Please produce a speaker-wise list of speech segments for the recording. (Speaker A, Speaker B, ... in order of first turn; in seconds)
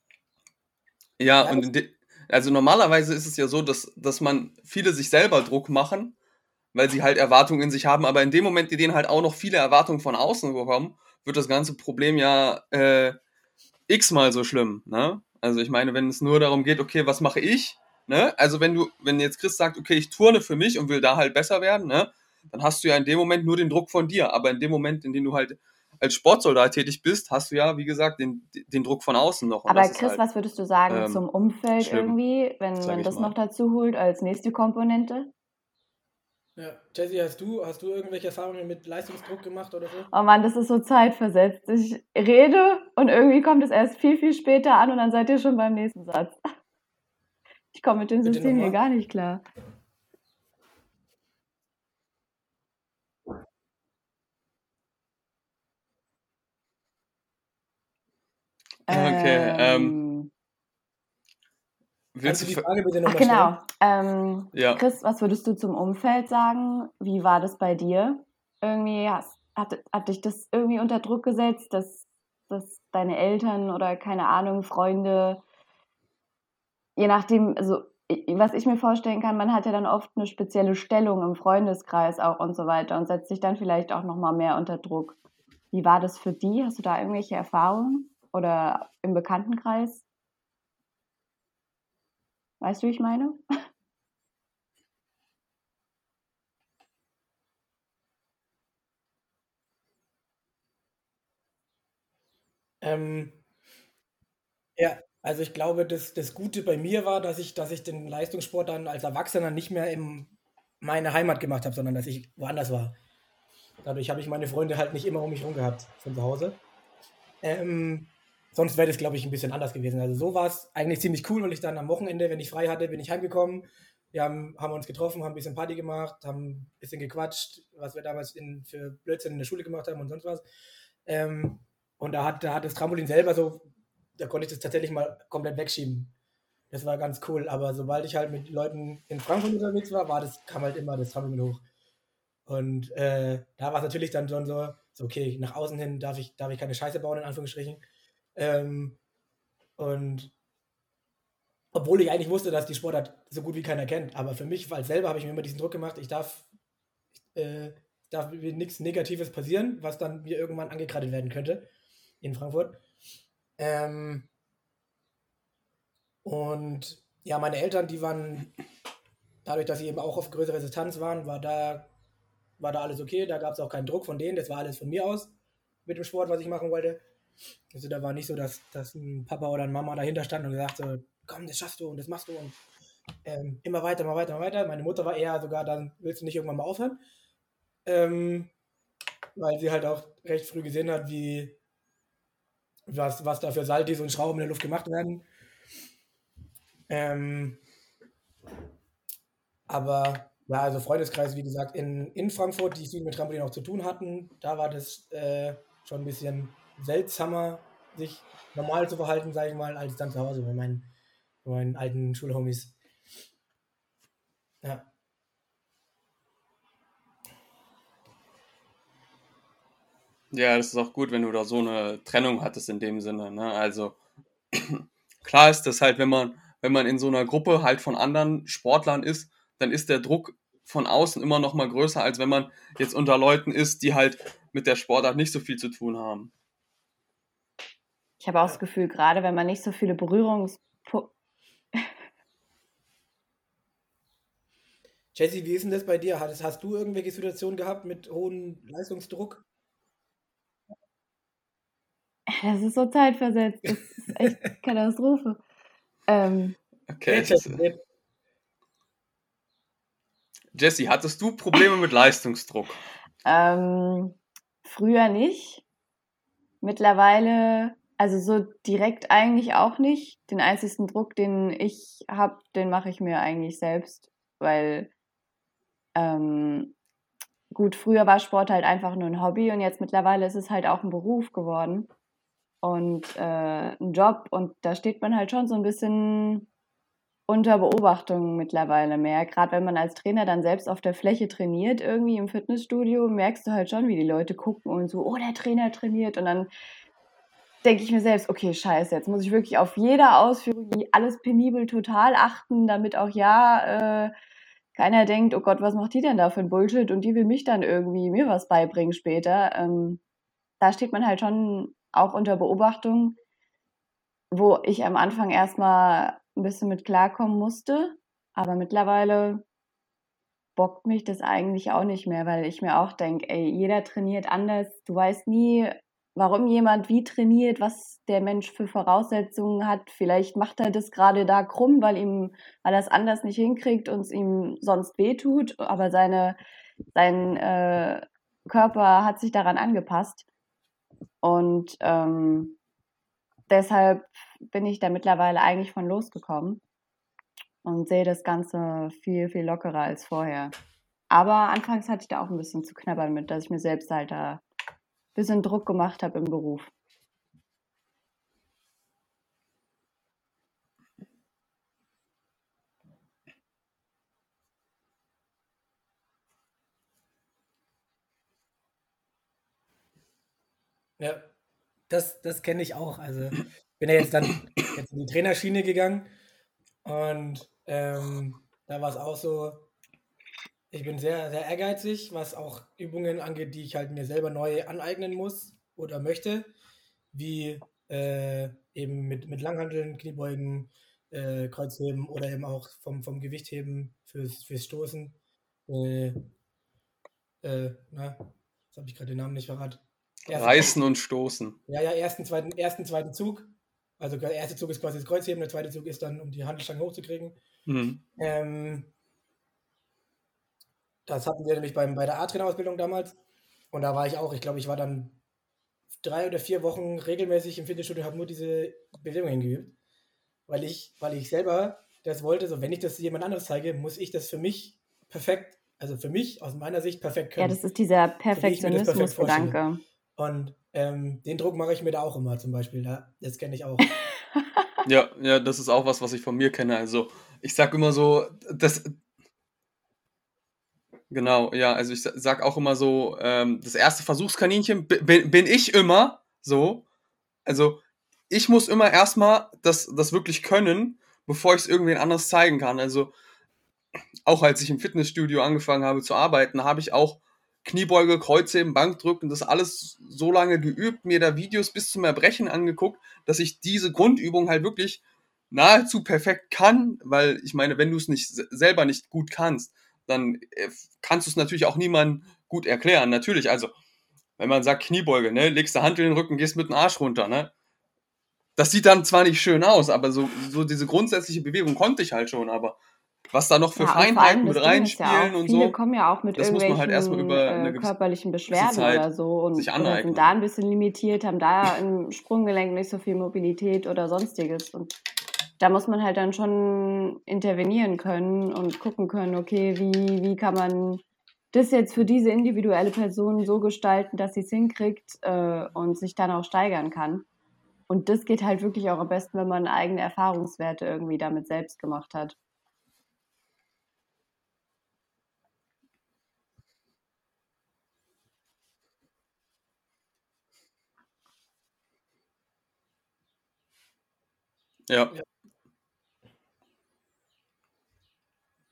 Speaker A: 1.2-6.2, 6.7-13.2, 13.9-30.2, 30.9-31.2, 31.8-32.2, 32.8-33.3, 58.9-60.0, 62.1-62.6, 64.5-64.8, 220.3-224.0, 224.5-236.3, 256.9-257.6, 260.5-262.8, 400.3-401.6, 407.6-408.0, 434.9-438.9, 441.1-446.8, 447.5-453.1, 454.3-473.7, 474.4-477.5, 478.6-482.8, 483.3-485.8, 486.4-487.9, 488.5-490.3
Speaker B: 1.4-1.7, 36.6-40.1, 48.2-48.8, 62.2-63.5, 102.8-103.4, 104.8-113.0, 113.8-116.6, 117.4-130.4, 131.1-136.1, 136.7-141.6, 142.5-147.8, 148.3-149.0, 149.8-150.3, 151.7-156.5, 157.3-161.7, 162.2-162.8, 163.6-164.3, 166.2-168.5, 169.4-171.9, 172.6-175.3, 175.8-177.0, 177.7-182.6, 183.2-187.0, 187.8-188.5, 189.3-191.6, 192.9-195.2, 196.9-197.6, 199.7-210.9, 211.4-212.8, 214.6-214.9, 245.1-249.4, 257.1-257.8, 371.0-371.3, 371.9-376.1, 376.8-379.7, 380.7-386.5, 387.1-396.3, 397.4-400.7, 401.7-407.4, 408.2-408.9, 411.1-413.2, 413.7-415.2, 416.0-419.7, 420.5-427.6, 428.3-429.6, 430.2-433.9
Speaker C: 29.7-35.3, 40.1-46.4, 47.7-49.4, 58.9-60.3, 63.1-75.4, 77.0-85.2, 85.7-90.0, 92.6-93.4, 238.2-241.1, 252.3-255.4, 256.1-256.6, 263.2-265.6, 266.6-274.9, 275.9-276.7, 277.5-281.9, 282.6-286.5, 287.3-296.5, 297.6-304.1, 304.8-310.0, 310.6-313.2, 314.3-319.4, 320.6-336.4, 336.9-340.2, 341.2-342.6, 343.5-346.6, 347.6-350.5, 351.1-354.4, 355.1-356.7, 427.4-429.8, 483.8-494.9, 495.6-507.2, 507.9-512.4